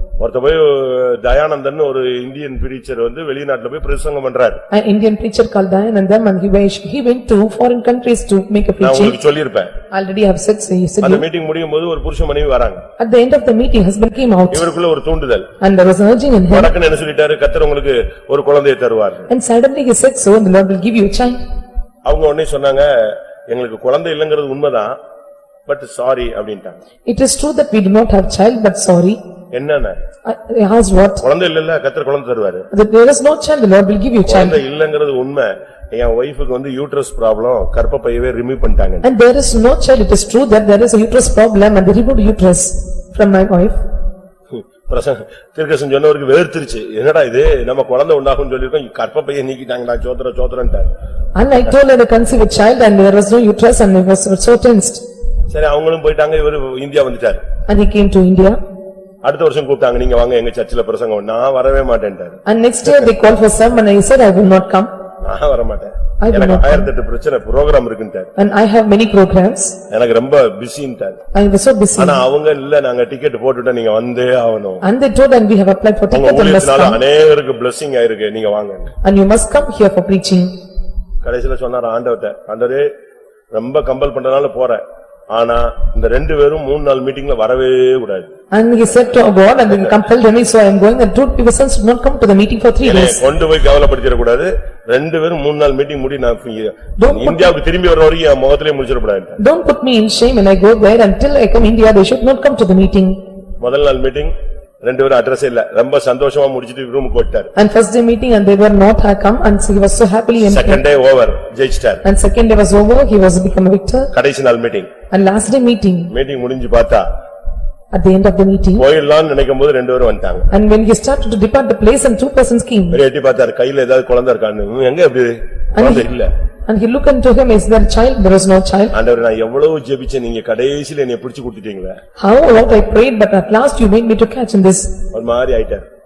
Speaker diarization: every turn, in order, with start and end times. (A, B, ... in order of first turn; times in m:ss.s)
0:00.2-0:04.6 A
0:04.7-0:09.2 B
0:08.8-0:09.7 A
0:09.9-0:11.2 B
0:11.0-0:12.8 A
0:13.0-0:14.7 B
0:14.5-0:15.5 A
0:15.6-0:16.7 B
0:16.5-0:19.3 A
0:19.3-0:21.4 B
0:22.0-0:25.0 A
0:25.7-0:26.8 A
0:27.1-0:29.2 B
0:29.5-0:30.0 A
0:30.2-0:31.2 B
0:31.2-0:32.7 A
0:32.7-0:34.6 B
0:34.2-0:39.0 A
0:39.0-0:43.8 B
0:44.5-0:50.9 A
0:51.4-0:55.0 B
0:55.5-0:57.4 A
0:57.7-0:58.6 B
0:59.2-1:02.4 A
1:02.4-1:04.9 B
1:05.2-1:08.3 A
1:06.2-1:06.9 B
1:08.4-1:09.8 B
1:09.9-1:11.2 A
1:11.3-1:12.2 B
1:12.0-1:14.8 A
1:14.8-1:17.0 B
1:16.1-1:18.9 A
1:19.0-1:20.5 B
1:21.2-1:22.8 A
1:23.5-1:28.3 A
1:28.5-1:33.2 B
1:32.8-1:39.4 A
1:37.0-1:37.5 B
1:39.4-1:43.2 B
1:43.6-1:47.5 A
1:47.6-1:50.8 B
1:50.4-1:52.0 A
1:52.0-1:54.1 B
1:54.1-1:54.9 A
1:55.1-1:56.1 B
1:56.1-1:57.0 A
1:57.9-1:58.8 B
1:58.8-2:00.5 A
2:00.5-2:03.0 B
2:02.9-2:06.3 A
2:05.7-2:06.1 B
2:06.7-2:08.9 B
2:08.9-2:12.0 A
2:12.2-2:15.0 B
2:15.1-2:15.9 A